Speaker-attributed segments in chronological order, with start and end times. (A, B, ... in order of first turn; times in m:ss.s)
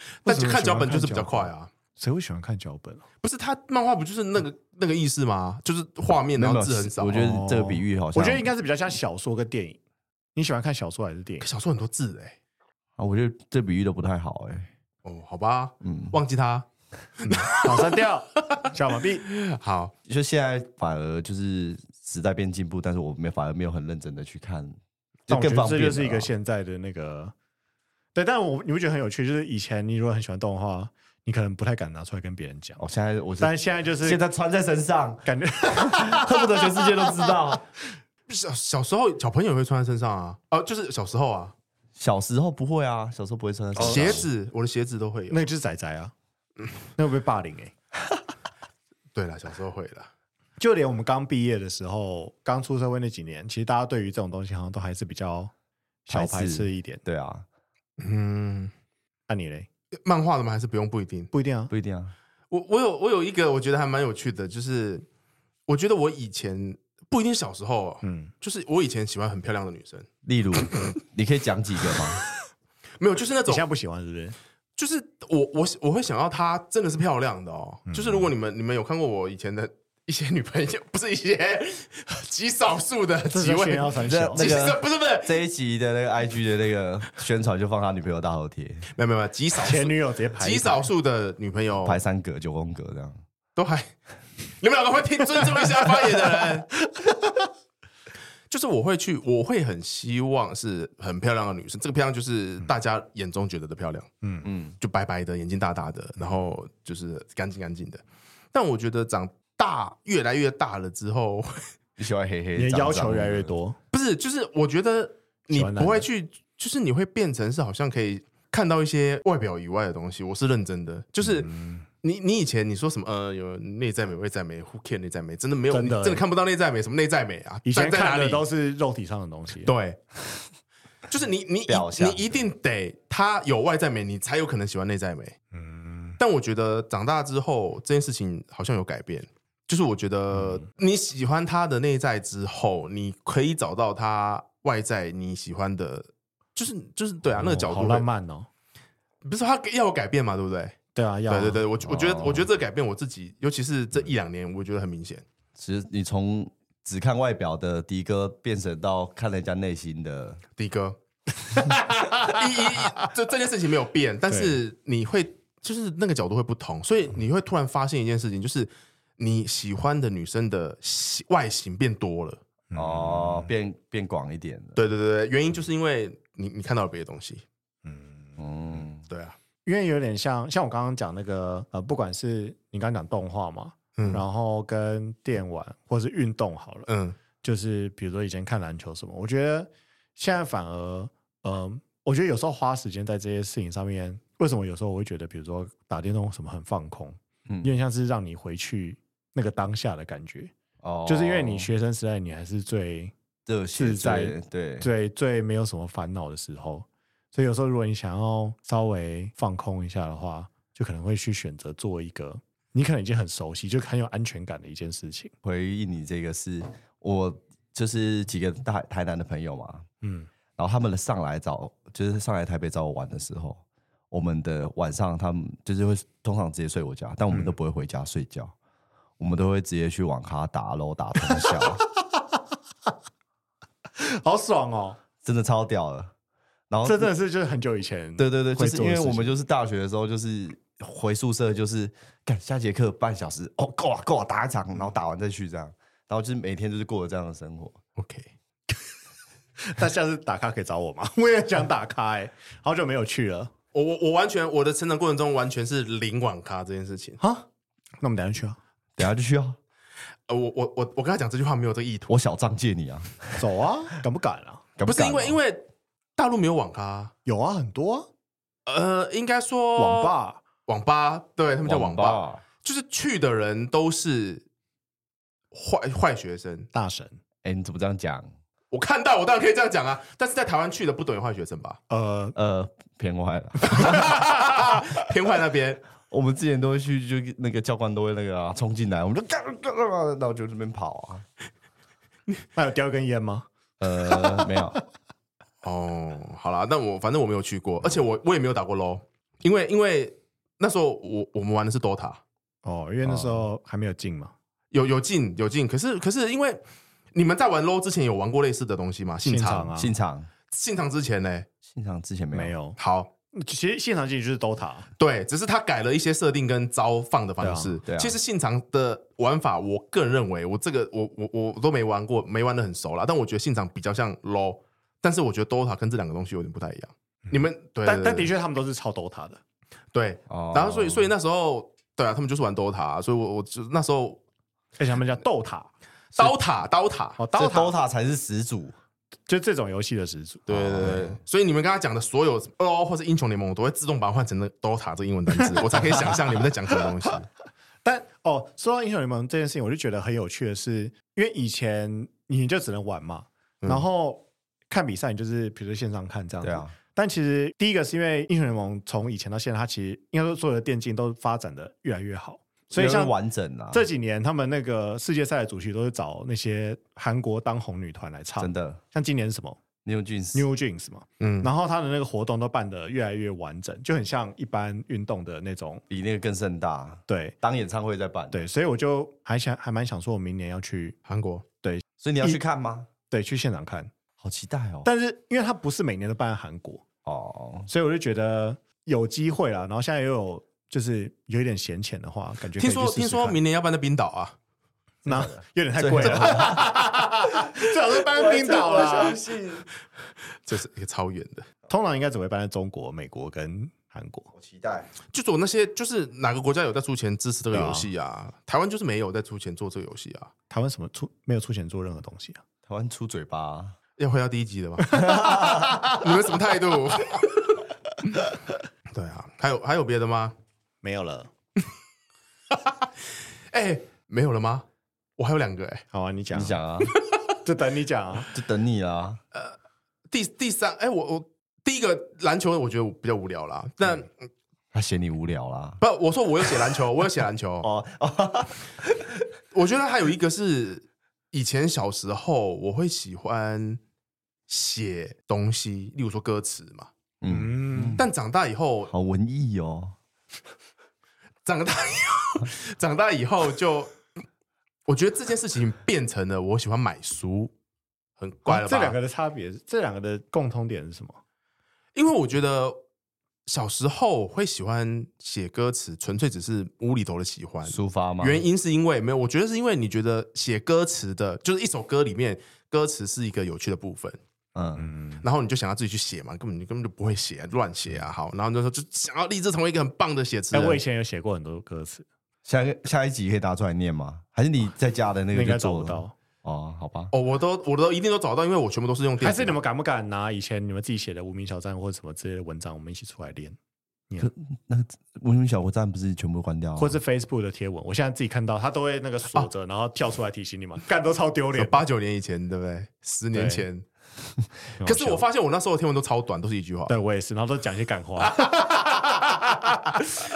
0:00.2-0:01.7 A
0:00.2-0:03.1 B
0:03.2-0:07.2 A
0:06.3-0:08.5 C
0:07.1-0:09.8 B
0:10.4-0:11.5 B
0:11.4-0:12.4 A
0:13.0-0:14.7 C
0:15.0-0:16.6 A
0:15.8-0:16.2 C
0:17.2-0:17.9 A
0:17.4-0:19.3 B
0:19.2-0:19.9 A
0:20.1-0:26.3 C
0:25.3-0:27.3 B
0:28.1-0:32.8 B
0:32.8-0:35.3 C
0:33.4-0:34.2 B
0:35.2-0:36.5 B
0:35.9-0:37.6 C
0:38.3-0:41.5 A
0:42.0-0:44.2 C
0:43.8-0:45.4 A
0:43.8-0:44.2 B
0:45.3-0:46.1 B
0:47.0-0:47.7 B
0:49.1-0:50.1 A
0:50.6-0:55.5 B
0:56.1-0:57.0 B
0:56.1-0:57.5 C
0:58.0-0:58.7 A
0:59.3-0:59.7 B
1:00.0-1:01.3 A
1:01.3-1:01.7 B
1:01.7-1:02.1 C
1:02.5-1:05.0 A
1:05.7-1:10.1 A
1:08.0-1:08.3 B
1:10.2-1:12.2 C
1:13.0-1:13.6 A
1:13.5-1:14.4 B
1:14.8-1:25.4 A
1:17.9-1:18.3 B
1:23.3-1:24.7 B
1:24.0-1:28.9 C
1:29.0-1:32.0 A
1:29.6-1:30.9 B
1:31.8-1:33.2 C
1:33.6-1:33.9 A
1:34.6-1:36.7 A
1:35.4-1:37.5 B
1:38.5-1:44.1 A
1:44.4-1:44.8 C
1:44.8-1:51.5 A
1:52.0-1:53.6 C
1:52.6-1:53.8 B
1:53.9-2:01.5 A
1:55.5-1:56.1 B
2:01.2-2:01.8 B
2:02.0-2:08.5 A
2:05.7-2:06.2 B
2:07.6-2:09.8 B
2:09.6-2:10.0 A
2:11.1-2:15.4 A
2:11.7-2:12.3 C
2:15.5-2:16.2 B
2:16.2-2:28.1 A
2:27.3-2:28.5 B
2:29.2-2:30.8 A
2:31.0-2:31.6 B
2:31.3-2:35.2 A
2:31.8-2:32.5 C
2:35.6-2:40.4 C
2:40.6-2:41.0 A
2:41.6-2:42.3 B
2:41.6-2:52.4 A
2:52.7-2:53.5 B
2:52.8-2:54.8 C
2:54.8-2:57.4 A
2:57.8-2:58.4 B
2:58.4-2:59.1 C
2:59.1-2:59.4 A
2:59.6-3:06.9 B
3:04.0-3:04.2 A
3:06.9-3:07.2 A
3:07.4-3:20.5 B
3:17.5-3:17.7 C
3:20.8-3:21.7 C
3:21.1-3:23.1 B
3:23.5-3:24.9 C
3:23.8-3:35.3 B
3:35.4-3:39.9 C
3:40.0-3:40.3 B
3:40.6-3:48.5 C
3:49.2-3:51.8 C
3:51.3-3:52.4 B
3:54.0-3:55.0 B
3:55.2-3:56.1 C
3:56.7-3:57.1 C
3:56.8-3:59.4 B
3:58.2-4:07.8 C
4:08.0-4:08.3 A
4:09.7-4:13.5 B
4:13.7-4:17.2 A
4:17.2-4:17.5 B
4:18.0-4:18.6 B
4:19.0-4:19.6 C
4:20.3-4:22.1 A
4:22.1-4:23.4 C
4:23.4-4:24.6 B
4:24.8-4:25.4 C
4:24.9-4:27.1 A
4:27.2-4:28.1 B
4:28.7-4:30.1 A
4:29.8-4:30.4 B
4:30.6-4:34.4 A
4:31.6-4:32.4 C
4:35.5-4:36.7 A
4:36.7-4:37.2 B
4:37.4-4:38.3 C
4:38.7-4:41.8 A
4:41.9-4:42.4 B
4:42.4-4:44.2 C
4:43.6-4:45.8 A
4:43.7-4:44.2 B
4:46.1-4:51.2 C
4:52.6-4:53.5 B
4:53.8-4:54.8 C
4:54.1-4:54.5 B
4:55.6-5:02.2 A
5:02.6-5:04.3 B
5:03.0-5:03.4 C
5:04.7-5:06.6 A
5:07.1-5:09.7 A
5:09.2-5:09.9 B
5:09.8-5:10.3 C
5:10.5-5:11.5 A
5:11.7-5:12.6 C
5:12.3-5:12.8 B
5:12.8-5:13.1 A
5:13.3-5:14.9 B
5:15.0-5:28.3 A
5:17.4-5:17.8 B
5:17.9-5:18.2 C
5:27.3-5:29.4 B
5:29.9-5:34.2 A
5:30.3-5:31.1 C
5:34.8-5:36.3 B
5:36.1-5:37.2 A
5:37.2-5:37.8 B
5:37.3-5:38.8 C
5:39.3-5:41.1 B
5:40.5-5:47.3 A
5:40.5-5:41.2 C
5:45.5-5:46.1 B
5:47.8-6:03.1 B
5:56.4-5:56.8 C
6:02.7-6:03.9 C
6:03.7-6:09.6 B
6:08.4-6:08.8 C
6:09.8-6:10.5 C
6:10.3-6:15.8 B
6:11.2-6:11.5 A
6:15.9-6:18.5 C
6:17.1-6:17.4 B
6:18.3-6:21.0 B
6:21.1-6:21.5 A
6:21.6-6:22.4 B
6:22.0-6:22.9 C
6:23.1-6:23.9 B
6:24.2-6:24.9 C
6:24.8-6:26.8 B
6:27.0-6:27.7 C
6:27.7-6:33.4 B
6:32.6-6:34.4 A
6:35.0-6:39.2 B
6:35.1-6:37.4 C
6:36.1-6:36.3 A
6:37.9-6:39.7 C
6:40.4-6:41.5 A
6:41.7-6:44.3 B
6:44.3-6:44.9 C
6:45.1-6:50.3 A
6:47.5-6:47.9 B
6:50.5-6:52.4 B
6:52.6-6:53.8 C
6:54.0-6:54.9 A
6:54.8-6:55.9 B
6:55.0-6:55.8 C
6:55.9-6:57.5 A
6:58.9-7:00.4 A
7:00.8-7:01.3 B
7:02.5-7:02.9 A
7:03.5-7:04.6 A
7:05.2-7:05.8 A
7:05.9-7:06.6 B
7:06.3-7:06.9 C
7:06.8-7:07.2 A
7:07.4-7:08.3 B
7:08.3-7:09.2 C
7:10.1-7:14.3 A
7:14.7-7:15.8 C
7:15.8-7:17.7 A
7:17.6-7:19.1 C
7:19.5-7:23.8 A
7:24.5-7:26.9 A
7:27.2-7:28.1 C
7:27.3-7:28.0 B
7:28.0-7:28.9 A
7:28.9-7:29.9 C
7:31.4-7:34.0 A
7:34.9-7:37.5 A
7:38.2-7:39.0 A
7:38.5-7:41.2 B
7:42.0-7:42.8 A
7:43.5-7:54.2 A
7:47.6-7:48.4 C
7:54.6-7:54.9 C
7:54.8-7:55.2 B
7:55.2-8:00.8 A
8:00.5-8:02.0 B
8:02.4-8:07.1 C
8:05.3-8:06.1 B
8:07.1-8:09.6 A
8:09.2-8:13.6 B
8:14.2-8:17.0 C
8:16.8-8:21.8 B
8:21.5-8:23.8 A
8:23.3-8:23.7 B
8:24.8-8:25.2 B
8:24.8-8:27.0 A
8:26.9-8:30.3 B